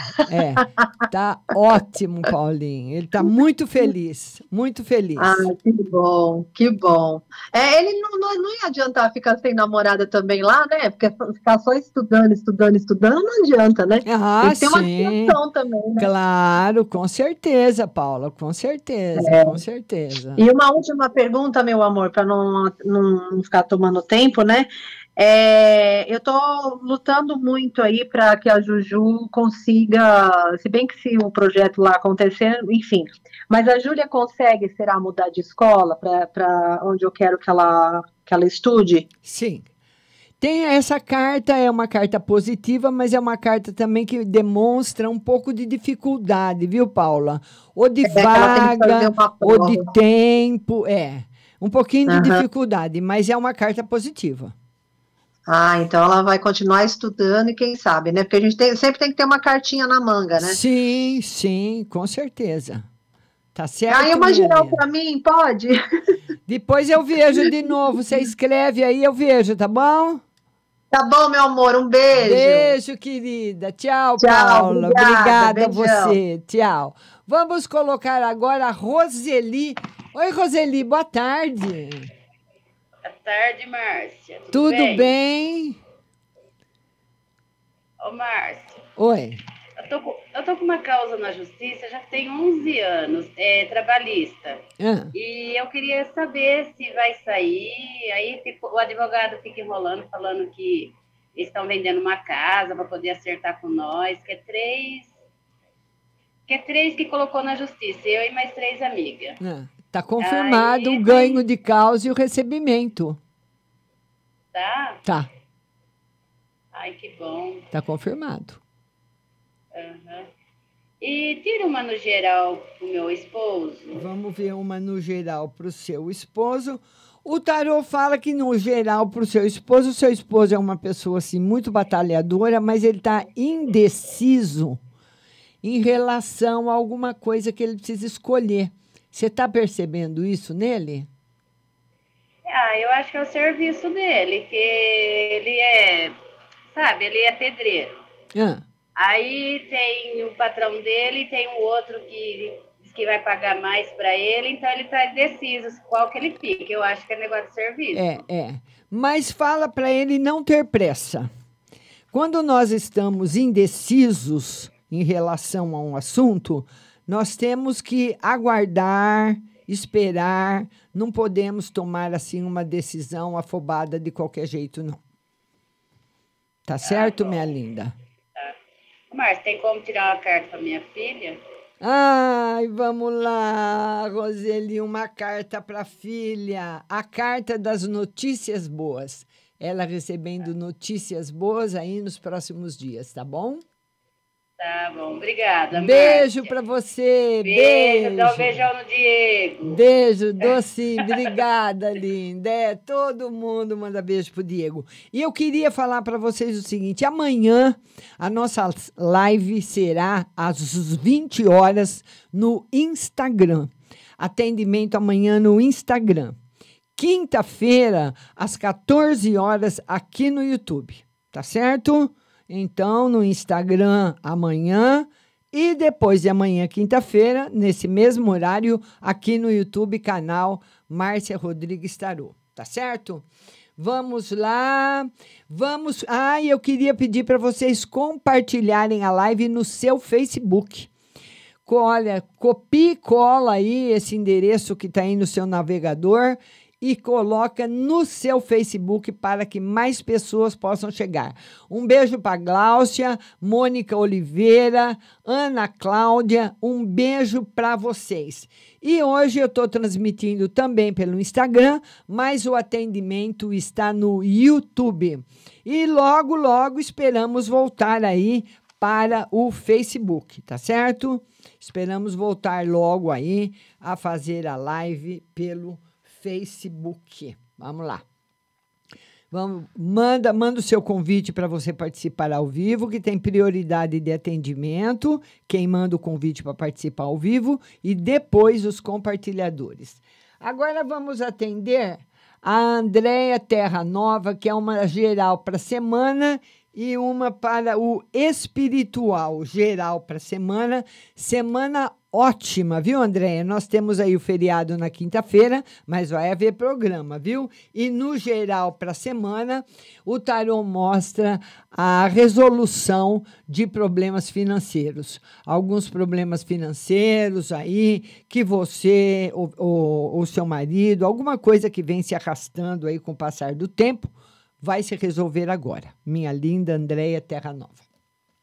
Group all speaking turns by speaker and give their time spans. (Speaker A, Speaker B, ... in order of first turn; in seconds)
Speaker A: 0.3-5.5, 14.0-15.4, 16.0-20.4, 39.2-39.6, 40.4-54.5, 60.4-62.9, 63.5-64.8, 66.5-70.2, 72.1-82.1, 84.5-85.8, 89.0-89.4, 94.8-95.1, 109.4-113.2, 117.7-118.6, 123.9-134.8, 135.6-141.1, 148.3-148.6, 157.9-161.3, 162.1-175.0, 176.7-177.9, 181.8-193.6, 195.7-198.6, 199.6-216.4, 216.9-233.2, 233.8-240.9, 241.7-278.0, 279.3-327.8
Speaker B: 5.2-16.1, 19.1-19.6, 20.4-39.0, 48.0-49.9, 52.1-52.5, 55.5-60.6, 63.9-65.8, 70.9-72.8, 74.2-76.2
Speaker C: 83.0-85.1, 88.0-88.8, 89.8-94.6, 95.1-105.1, 106.5-109.4, 110.2-111.4, 114.5-115.0, 116.7-117.7, 119.7-120.3, 121.0-123.9, 142.5-146.1, 146.7-148.0, 149.0-158.1, 176.8-177.4, 179.1-181.4, 194.6-196.5, 197.4-199.8, 200.4-201.3